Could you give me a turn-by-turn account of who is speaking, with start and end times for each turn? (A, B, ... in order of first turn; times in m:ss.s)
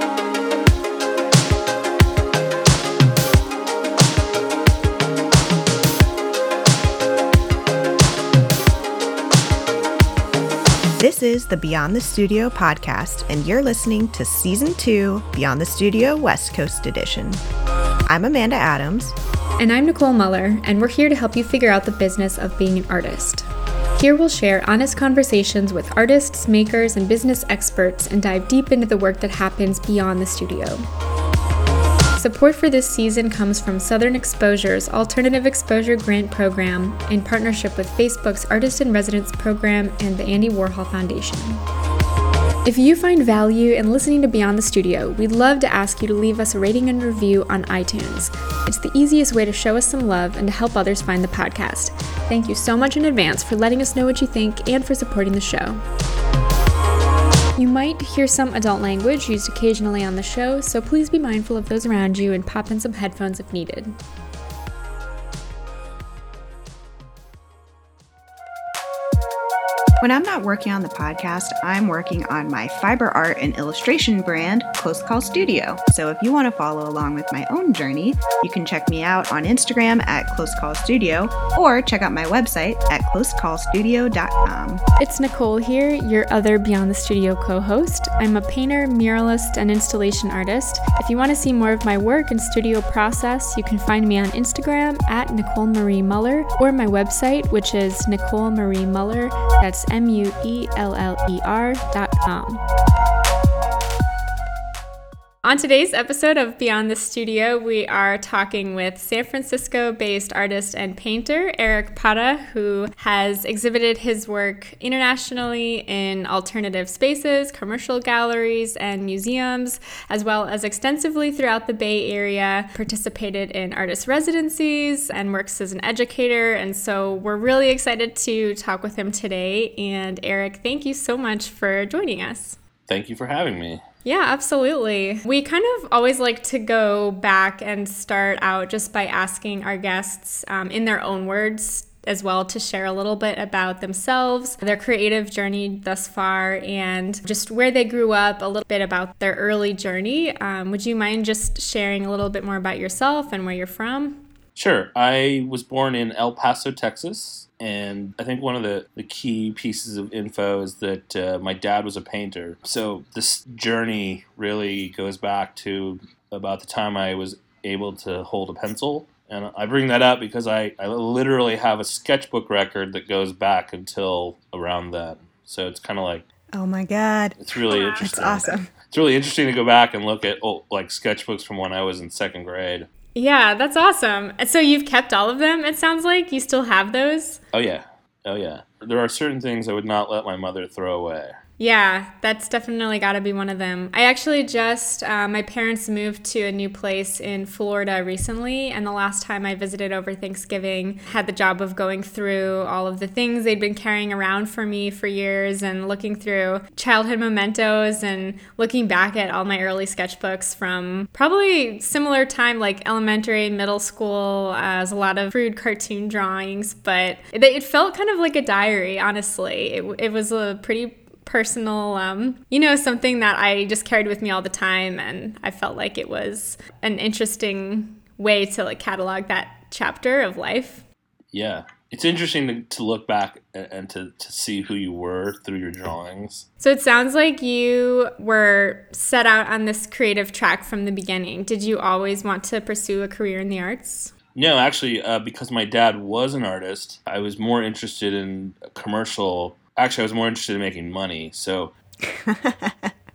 0:11.0-0:17.4 A
0:18.1-0:19.2 A
0:19.6-0:30.8 B
0:32.2-0:41.6 B
0:42.6-0:55.8 B
0:57.6-1:04.0 B
1:10.0-1:24.8 A
1:25.0-1:42.6 B
1:45.4-2:12.6 B
2:12.9-2:13.8 C
2:14.0-2:34.2 B
2:34.6-2:56.2 C
2:56.5-2:58.7 A
2:57.4-3:02.9 C
2:57.7-2:58.1 B
3:03.1-3:07.4 B
3:07.5-3:11.4 C
3:11.6-3:50.9 B
3:51.3-3:56.5 C
3:56.6-4:04.1 B
4:04.4-4:11.7 C
4:12.0-4:12.9 A